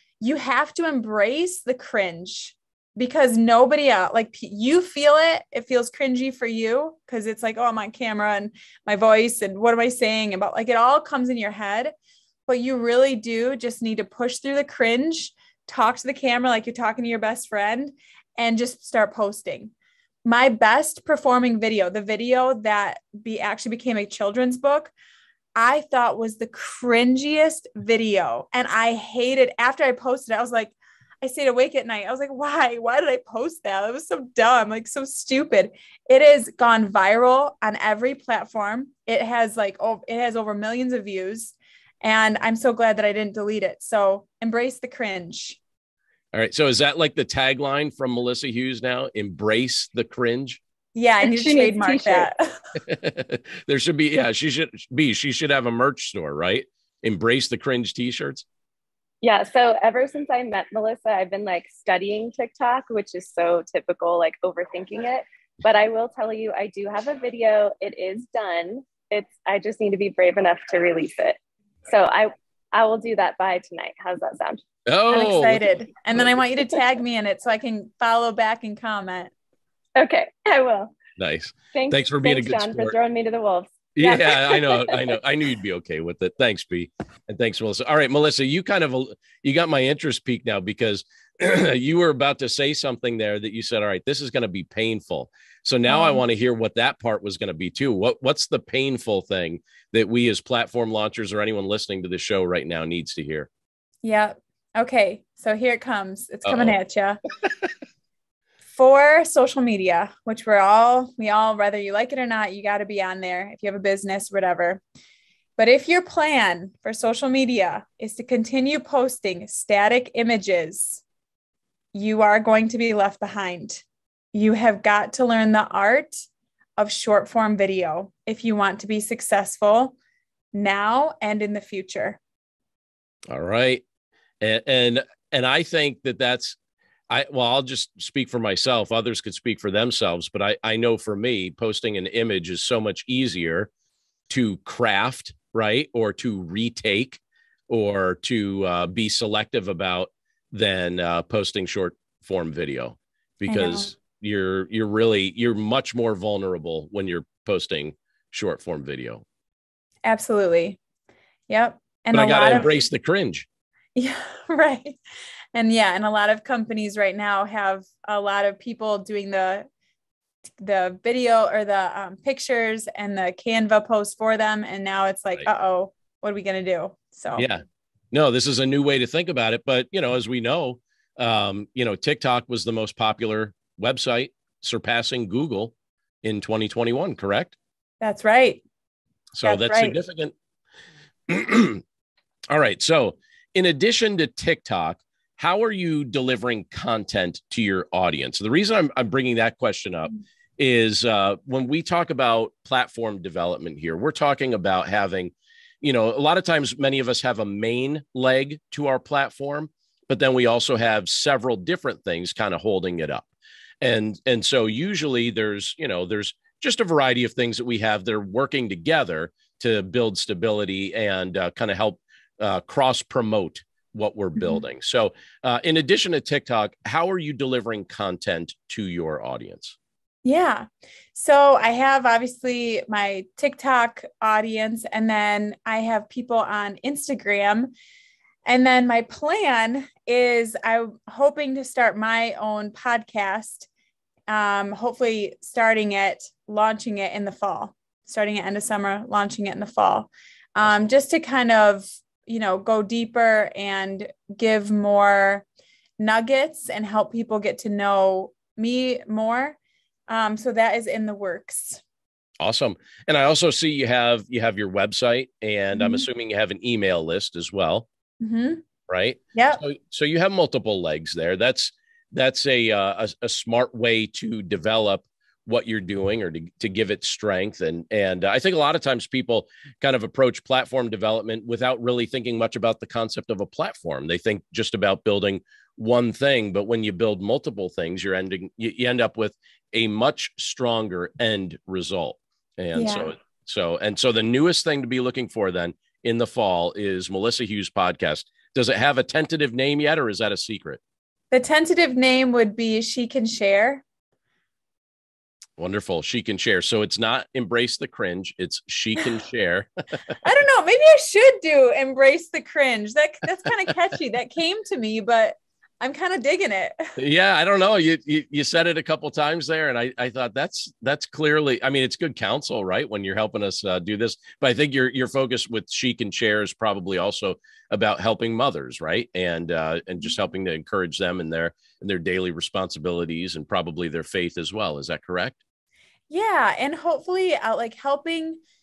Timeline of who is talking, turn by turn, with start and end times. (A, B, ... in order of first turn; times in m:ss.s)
0:00.2-0:11.9 A
0:12.5-0:19.7 A
0:20.2-0:24.9 A
0:25.6-0:45.6 A
0:46.3-0:50.6 B
0:50.9-0:52.4 A
0:51.2-0:52.3 C
0:52.9-0:58.4 B
0:59.2-1:11.4 C
1:11.9-1:14.6 C
1:14.8-1:15.6 B
1:15.1-1:19.3 A
1:20.0-1:21.0 C
1:21.2-1:22.9 B
1:21.7-1:25.2 C
1:24.0-1:43.5 B
1:35.9-1:36.2 A
1:44.0-1:47.2 A
1:46.4-1:46.8 B
1:48.6-1:54.8 A
1:55.6-2:01.0 A
2:01.9-2:06.2 A
2:06.8-2:09.9 A
2:10.5-2:12.2 A
2:13.3-2:13.8 B
2:14.4-2:16.6 B
2:17.1-2:23.7 B
2:24.3-2:39.2 B
2:33.5-2:33.9 A
2:40.0-2:40.8 A
2:41.5-2:42.7 A
2:42.1-2:43.5 B
2:43.9-2:45.0 A
2:45.5-2:49.7 A
2:50.6-2:57.5 A
2:57.4-3:07.6 B
3:08.0-3:08.6 A
3:09.3-3:10.3 B
3:09.4-3:10.0 A
3:11.3-3:11.8 B
3:12.5-3:33.3 B
3:33.8-3:49.8 B
3:44.4-3:44.6 A
3:50.2-3:57.7 A
3:58.4-4:03.7 A
4:04.3-4:15.4 A
4:16.0-4:19.6 A
4:20.1-4:21.8 A
4:22.4-4:27.8 B
4:25.7-4:26.0 A
4:28.2-4:28.6 A
4:28.9-5:00.8 B
4:29.3-4:29.6 A
4:52.7-4:53.1 A
5:01.3-5:03.8 A
5:05.6-5:10.1 B
5:10.2-5:16.9 A
5:17.0-5:35.4 B
5:36.1-5:38.4 A